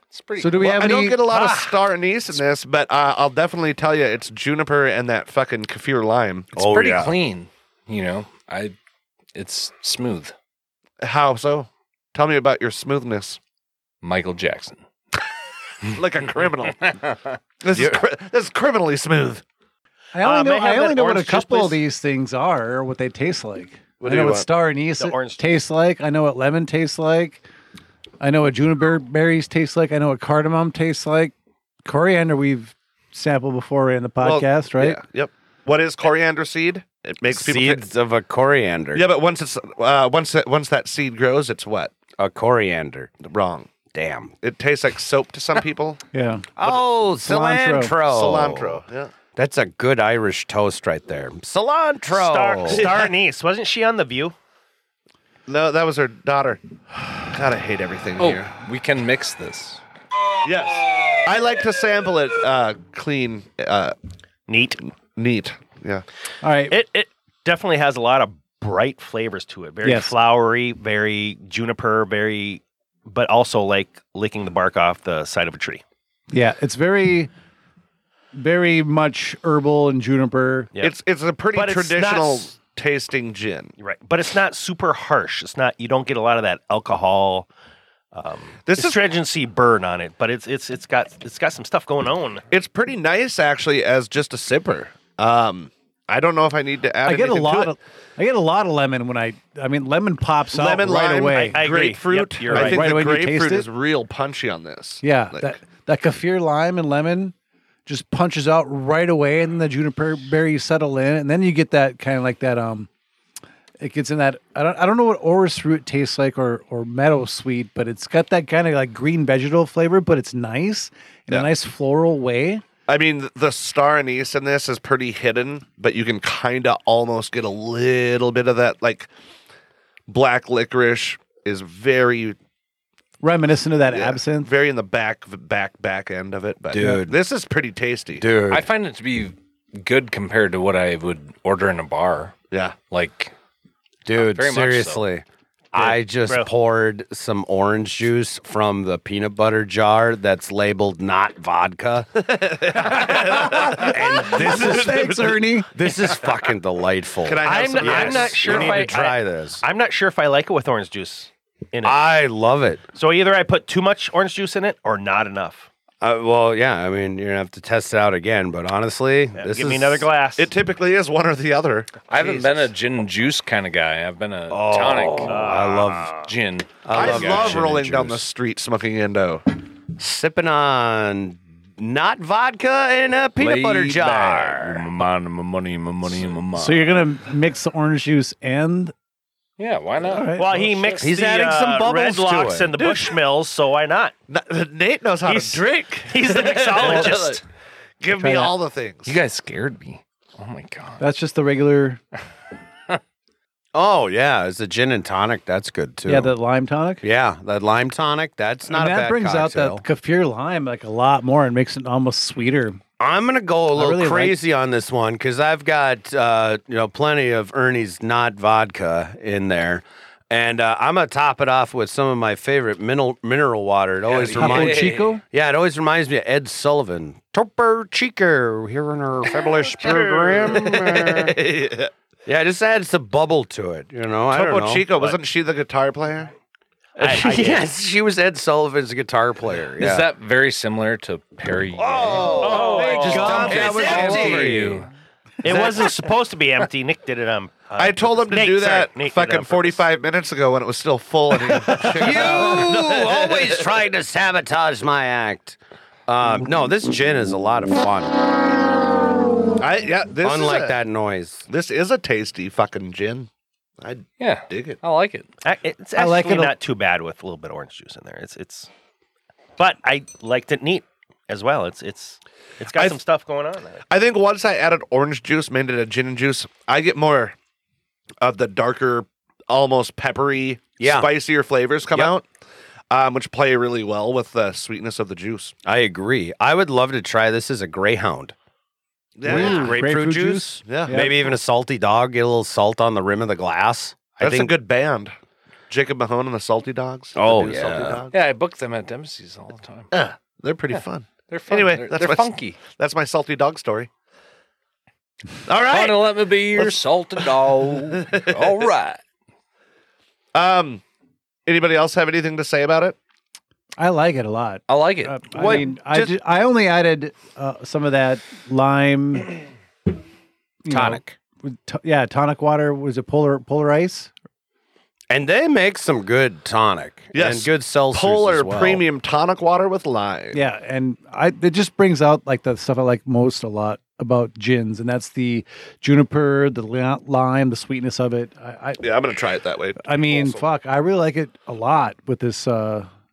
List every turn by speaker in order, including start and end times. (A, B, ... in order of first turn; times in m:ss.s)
0:00.1-0:01.0 A
0:00.4-0:01.8 B
0:00.6-0:06.7 C
0:06.6-0:08.7 A
0:06.6-0:07.1 D
0:09.3-0:10.3 A
0:11.0-0:13.4 C
0:14.0-0:14.8 A
0:15.9-0:17.0 C
0:17.6-0:19.4 C
0:20.1-0:27.4 B
0:20.2-0:21.8 E
0:24.0-0:24.5 C
0:25.0-0:25.4 E
0:28.2-0:31.3 B
0:31.8-0:35.0 B
0:34.2-0:37.8 C
0:37.2-0:39.1 D
0:38.9-0:41.9 C
0:42.2-0:43.1 D
0:43.2-0:43.7 C
0:43.9-0:44.3 D
0:44.4-0:46.0 C
0:46.1-0:46.5 B
0:46.6-0:48.8 D
0:47.2-0:47.9 B
0:48.0-0:49.1 C
0:49.4-0:52.9 D
0:52.1-0:54.3 E
0:52.7-0:53.1 C
0:55.5-0:56.6 C
0:57.3-0:58.4 C
0:58.2-0:59.8 A
1:00.4-1:03.9 C
1:04.5-1:04.8 E
1:04.8-1:06.0 C
1:06.4-1:06.8 B
1:06.7-1:15.8 E
1:09.8-1:10.1 B
1:16.3-1:17.3 B
1:18.3-1:20.7 B
1:20.8-1:23.7 C
1:21.5-1:22.5 E
1:23.8-1:27.5 E
1:28.1-1:32.4 E
1:28.7-1:29.0 C
1:32.5-1:37.7 C
1:37.0-1:41.6 B
1:40.5-1:45.6 C
1:41.4-1:43.0 E
1:42.5-1:43.7 B
1:45.0-1:47.3 B
1:47.8-1:52.9 B
1:53.8-2:02.6 B
2:02.9-2:09.1 C
2:10.1-2:12.4 C
2:13.2-2:14.5 B
2:13.9-2:18.3 C
2:16.7-2:17.2 D
2:18.2-2:18.7 D
2:18.5-2:23.3 A
2:22.5-2:22.8 C
2:24.0-2:32.1 D
2:24.1-2:25.0 A
2:25.7-2:26.5 E
2:32.2-2:35.4 C
2:33.1-2:35.7 B
2:33.5-2:35.1 D
2:35.7-2:39.6 D
2:37.2-2:38.9 C
2:37.4-2:42.0 E
2:41.8-2:42.8 D
2:42.9-2:45.7 E
2:46.0-2:50.1 D
2:49.4-2:50.5 E
2:50.4-2:52.0 C
2:52.1-2:57.9 A
2:54.5-2:56.2 D
2:55.2-2:56.3 E
2:56.8-2:58.2 D
2:56.9-2:59.4 C
3:00.0-3:04.8 D
3:03.4-3:06.9 A
3:06.5-3:08.9 B
3:09.6-3:11.1 A
3:10.0-3:10.5 B
3:10.4-3:14.1 E
3:11.0-3:12.7 D
3:12.8-3:13.1 C
3:14.3-3:17.4 C
3:15.2-3:17.4 E
3:18.0-3:19.2 C
3:18.1-3:18.5 B
3:19.0-3:21.0 A
3:21.0-3:22.0 B
3:23.7-3:26.3 D
3:26.0-3:27.0 B
3:27.0-3:29.8 D
3:28.7-3:32.8 B
3:33.0-3:51.3 D
3:33.7-3:34.4 B
3:44.0-3:45.2 A
3:44.4-3:45.2 B
3:49.8-3:51.9 C
3:52.2-3:55.1 D
3:54.3-3:56.3 C
3:57.0-3:57.6 E
3:57.0-4:00.1 D
3:59.8-4:04.9 A
4:01.7-4:04.8 D
4:02.4-4:03.4 E
4:02.6-4:04.8 B
4:05.4-4:09.8 E
4:05.5-4:05.8 C
4:07.8-4:13.7 C
4:11.6-4:12.5 B
4:11.7-4:18.3 D
4:19.6-4:20.8 C
4:20.2-4:21.4 D
4:21.5-4:23.3 C
4:23.8-4:24.8 C
4:24.2-4:25.3 A
4:25.4-4:28.7 E
4:26.0-4:26.5 B
4:29.6-4:33.8 E
4:33.9-4:37.3 C
4:38.2-4:42.2 C
4:40.8-4:41.1 D
4:42.9-4:45.5 C
4:45.6-4:48.3 D
4:49.2-4:49.8 C
4:49.2-4:51.2 B
4:49.2-4:54.5 D
4:50.6-4:51.0 C
4:54.2-4:55.1 C
4:55.7-4:58.2 C
4:57.2-4:58.0 D
4:58.1-4:59.9 A
4:59.9-5:03.9 C
5:01.3-5:02.6 A
5:05.4-5:07.4 C
5:05.6-5:09.0 A
5:08.0-5:08.7 C
5:10.3-5:10.8 C
5:11.4-5:13.0 C
5:13.8-5:19.3 B
5:14.7-5:15.6 A
5:15.3-5:16.1 D
5:20.6-5:24.1 B
5:20.7-5:21.2 D
5:25.1-5:28.8 D
5:27.1-5:30.4 C
5:30.3-5:38.8 B
5:38.8-5:40.4 C
5:39.8-5:42.9 B